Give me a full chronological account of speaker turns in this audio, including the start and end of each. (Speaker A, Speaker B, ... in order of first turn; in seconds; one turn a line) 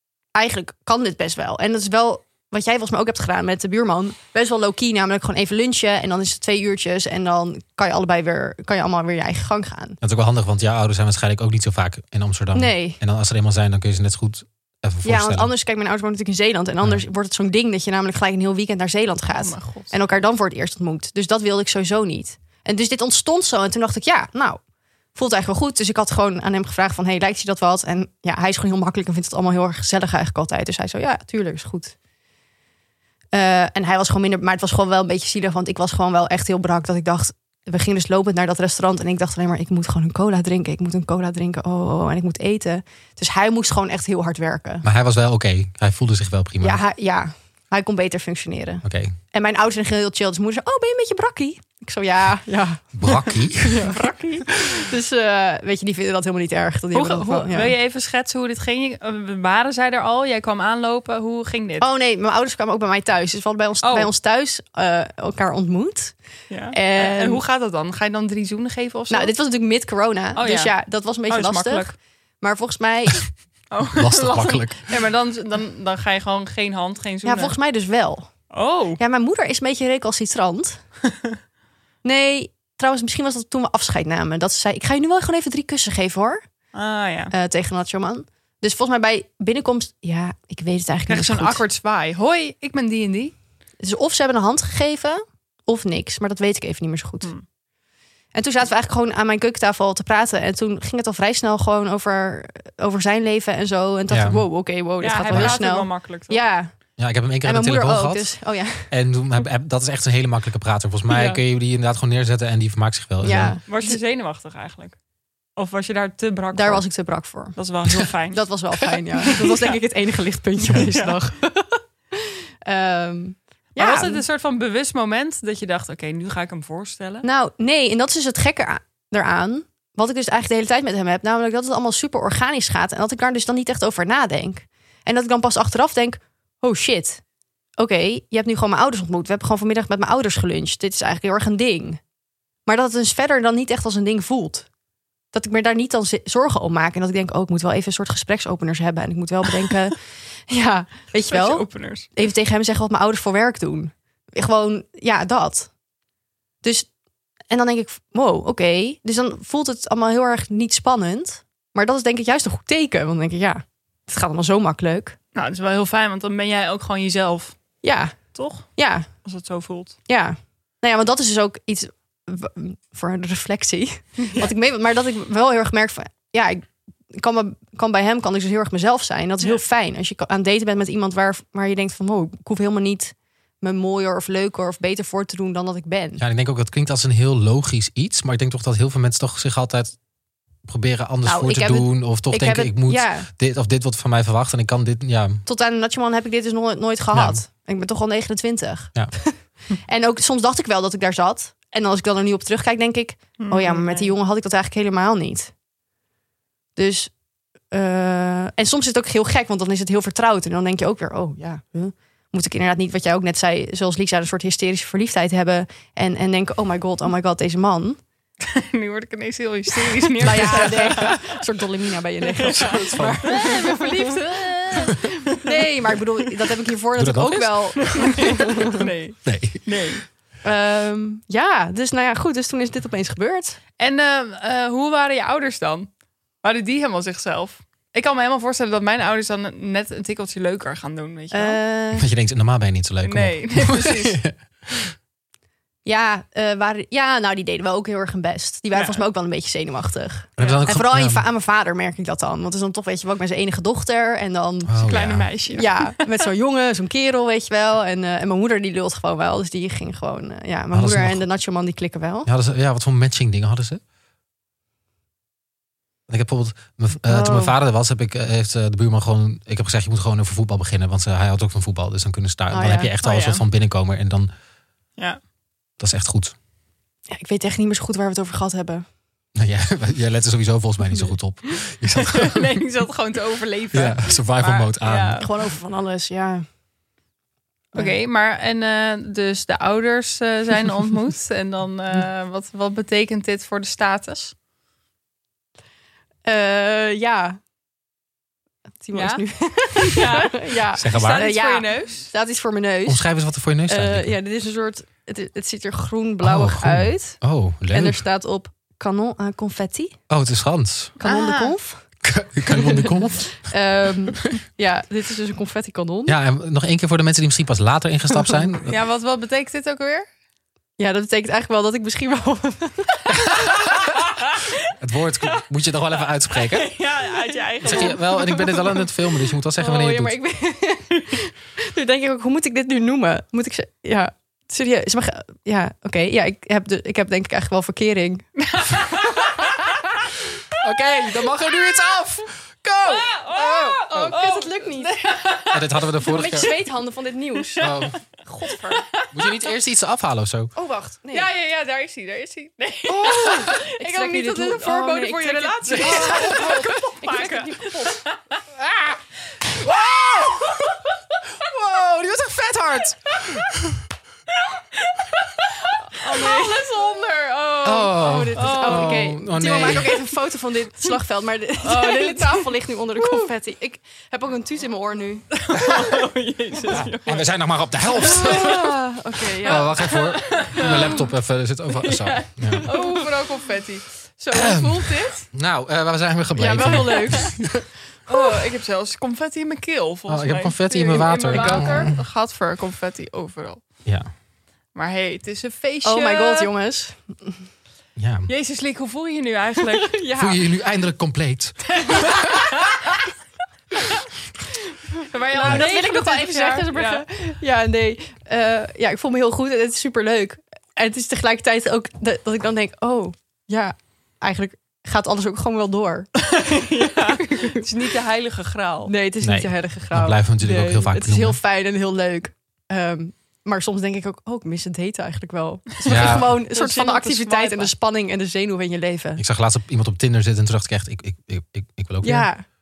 Speaker A: 0.3-10.0
Speaker B: 10.0-15.5
Speaker A: 12.5-13.0
Speaker A: 15.0-24.6
Speaker C: 19.3-20.1
Speaker A: 25.1-31.9
Speaker A: 33.3-44.9
Speaker B: 44.8-46.8
Speaker A: 46.6-57.7
Speaker B: 48.8-49.1
Speaker B: 52.9-53.8
Speaker C: 53.8-54.6
Speaker C: 56.9-61.9
Speaker A: 61.8-66.2
Speaker C: 63.8-64.1
Speaker C: 66.5-69.3
Speaker A: 66.7-67.4
Speaker A: 69.1-73.3
Speaker C: 70.3-70.7
Speaker C: 71.3-71.9
Speaker C: 73.7-77.5
Speaker B: 73.9-74.9
Speaker A: 77.2-78.3
Speaker C: 78.5-79.0
Speaker A: 79.0-80.8
Speaker A: 82.0-86.4
Speaker C: 86.7-87.3
Speaker A: 87.3-91.6
Speaker C: 91.1-93.3
Speaker A: 93.8-97.3
Speaker A: 98.3-106.7
Speaker B: 104.1-104.4
Speaker C: 105.0-106.4
Speaker B: 105.3-105.6
Speaker B: 107.0-108.3
Speaker A: 107.4-108.9
Speaker B: 108.9-113.6
Speaker A: 111.1-111.4
Speaker A: 113.2-114.0
Speaker C: 113.7-115.0
Speaker C: 115.6-116.8
Speaker A: 116.5-117.6
Speaker C: 117.5-119.8
Speaker A: 118.3-124.2
Speaker C: 123.8-127.2
Speaker A: 127.2-137.2
Speaker A: 137.8-142.0
Speaker A: 142.7-144.7
Speaker A: 145.3-155.7
Speaker C: 151.2-152.1
Speaker A: 156.6-156.9
Speaker A: 157.5-165.2
Speaker C: 165.3-167.6
Speaker A: 167.8-168.2
Speaker C: 168.3-168.7
Speaker A: 168.8-169.1
Speaker C: 169.2-169.9
Speaker A: 170.1-186.2
Speaker C: 174.2-174.5
Speaker B: 186.2-190.0
Speaker B: 190.7-195.4
Speaker A: 191.2-193.3
Speaker A: 195.4-205.5
Speaker B: 197.1-197.4
Speaker C: 203.4-204.1
Speaker A: 206.8-207.1
Speaker A: 207.7-218.0
Speaker C: 218.4-221.4
Speaker A: 220.2-228.8
Speaker B: 220.4-220.7
Speaker C: 222.4-225.5
Speaker B: 222.5-223.6
Speaker B: 227.0-227.9
Speaker C: 227.9-230.0
Speaker B: 229.2-229.6
Speaker A: 230.4-233.6
Speaker C: 233.8-235.9
Speaker C: 236.4-241.6
Speaker A: 241.3-242.1
Speaker B: 241.9-244.9
Speaker C: 243.0-244.2
Speaker A: 245.8-254.8
Speaker C: 248.7-249.0
Speaker B: 250.4-251.2
Speaker C: 250.4-250.6
Speaker B: 254.7-255.3
Speaker C: 254.8-256.0
Speaker A: 255.5-262.3
Speaker B: 260.7-261.2
Speaker B: 262.2-263.8
Speaker B: 266.1-274.3
Speaker A: 267.0-267.5
Speaker A: 272.5-272.9
Speaker C: 273.0-273.4
Speaker B: 275.8-276.3
Speaker A: 277.1-278.9
Speaker B: 279.3-282.6
Speaker C: 282.0-285.3
Speaker B: 283.7-285.3
Speaker A: 285.2-286.4
Speaker C: 287.7-294.3
Speaker A: 296.2-297.4
Speaker A: 298.8-303.0
Speaker C: 298.9-302.1
Speaker B: 300.7-301.3
Speaker B: 302.9-304.1
Speaker A: 303.7-307.2
Speaker B: 306.2-308.0
Speaker A: 307.7-309.9
Speaker B: 310.1-311.0
Speaker A: 311.0-311.8
Speaker C: 311.0-311.5
Speaker B: 312.0-313.5
Speaker A: 312.5-316.1
Speaker B: 316.1-318.8
Speaker C: 318.7-320.1
Speaker A: 320.8-323.3
Speaker C: 323.5-324.5
Speaker B: 324.7-326.8
Speaker C: 326.3-328.9
Speaker B: 327.6-330.2
Speaker A: 327.6-328.0
Speaker A: 329.6-339.7
Speaker C: 338.4-339.9
Speaker B: 340.4-344.2
Speaker C: 342.9-346.6
Speaker A: 343.4-345.1
Speaker B: 345.5-346.5
Speaker A: 346.0-347.7
Speaker C: 347.3-349.5
Speaker B: 347.6-348.0
Speaker A: 348.2-348.8
Speaker B: 349.1-350.5
Speaker A: 350.6-351.3
Speaker C: 351.1-358.4
Speaker A: 352.9-358.0
Speaker B: 355.7-356.6
Speaker C: 359.3-360.8
Speaker B: 361.4-363.6
Speaker C: 363.2-363.4
Speaker C: 364.8-365.1
Speaker A: 365.6-375.8
Speaker C: 366.0-367.7
Speaker B: 367.6-370.0
Speaker C: 368.3-370.0
Speaker C: 371.6-373.3
Speaker C: 375.3-377.3
Speaker B: 376.7-378.8
Speaker A: 377.9-380.7
Speaker C: 378.0-378.6
Speaker C: 379.4-381.1
Speaker B: 379.4-382.7
Speaker C: 381.9-384.0
Speaker A: 382.4-383.0
Speaker A: 384.2-385.2
Speaker B: 384.3-387.6
Speaker A: 386.4-387.5
Speaker C: 386.6-387.1
Speaker C: 388.1-393.6
Speaker B: 390.1-392.0
Speaker A: 390.9-391.9
Speaker C: 394.7-396.5
Speaker A: 395.8-397.5
Speaker B: 397.9-398.3
Speaker C: 398.3-400.0
Speaker A: 399.7-400.4
Speaker B: 400.1-402.2
Speaker C: 401.7-402.9
Speaker A: 404.9-416.2
Speaker C: 405.0-407.0
Speaker C: 416.2-418.9
Speaker A: 416.9-417.6
Speaker A: 418.9-429.2
Speaker B: 419.2-421.4
Speaker C: 425.8-427.7
Speaker B: 425.9-426.3
Speaker B: 429.2-432.3
Speaker A: 432.0-432.4